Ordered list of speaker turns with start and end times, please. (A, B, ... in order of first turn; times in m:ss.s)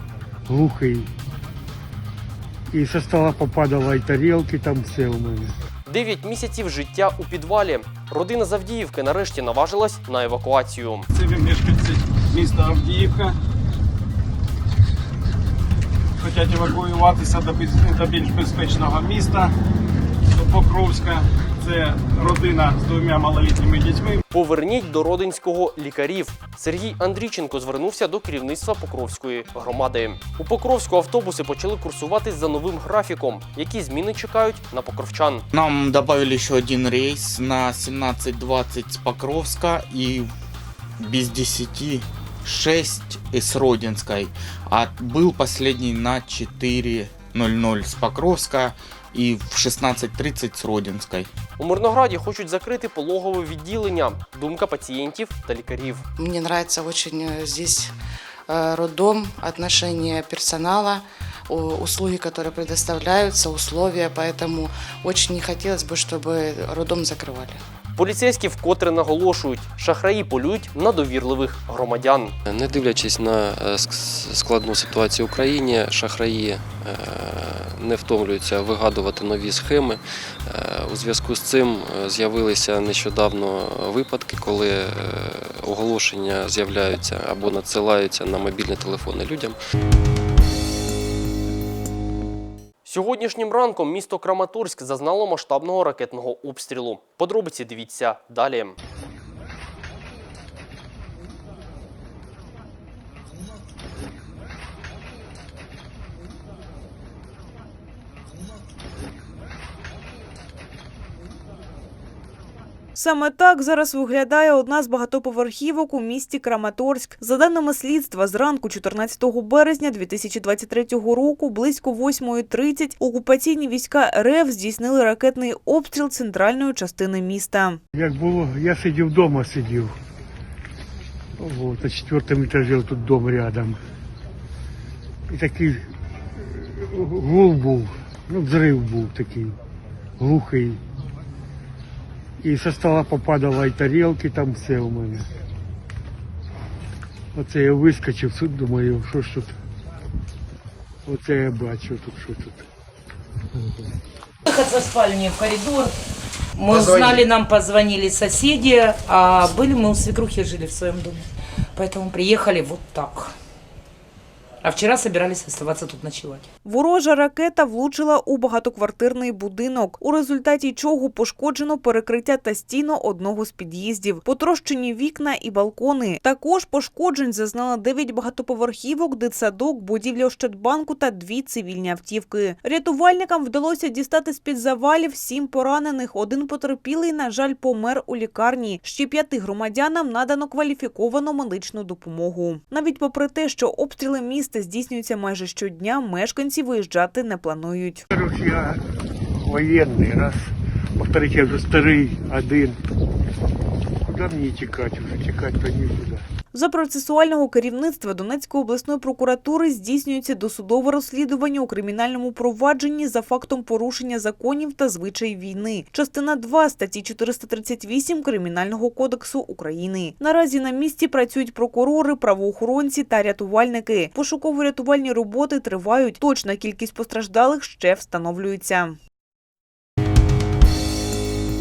0:00.5-0:01.1 A
0:02.7-0:05.5 A
0:05.9-0:11.1 B
0:11.1-0:13.4 C
0:16.2-0:19.5 C
0:20.3-0:24.2 C
0:24.3-0:35.4 B
0:35.5-0:40.3 D
0:41.0-0:51.3 D
0:51.6-0:56.0 B
0:56.2-0:57.9 E
0:58.5-1:07.6 E
1:08.0-1:12.3 B
1:12.4-1:29.6 F
1:32.8-1:38.8 B
1:53.0-2:07.8 G
2:07.9-2:09.9 A
2:11.4-2:13.8 A
2:15.3-2:15.8 A
2:16.6-2:19.6 A
2:20.2-2:20.8 A
2:22.4-2:25.3 A
2:27.3-2:29.6 A
2:31.1-2:32.7 A
2:34.4-2:35.9 H
2:36.6-2:41.2 H
2:41.8-2:43.3 H
2:44.6-2:46.4 H
2:46.6-3:18.0 G
3:18.1-3:18.8 A
3:19.4-3:22.8 A
3:24.0-3:26.2 A
3:26.5-3:49.0 G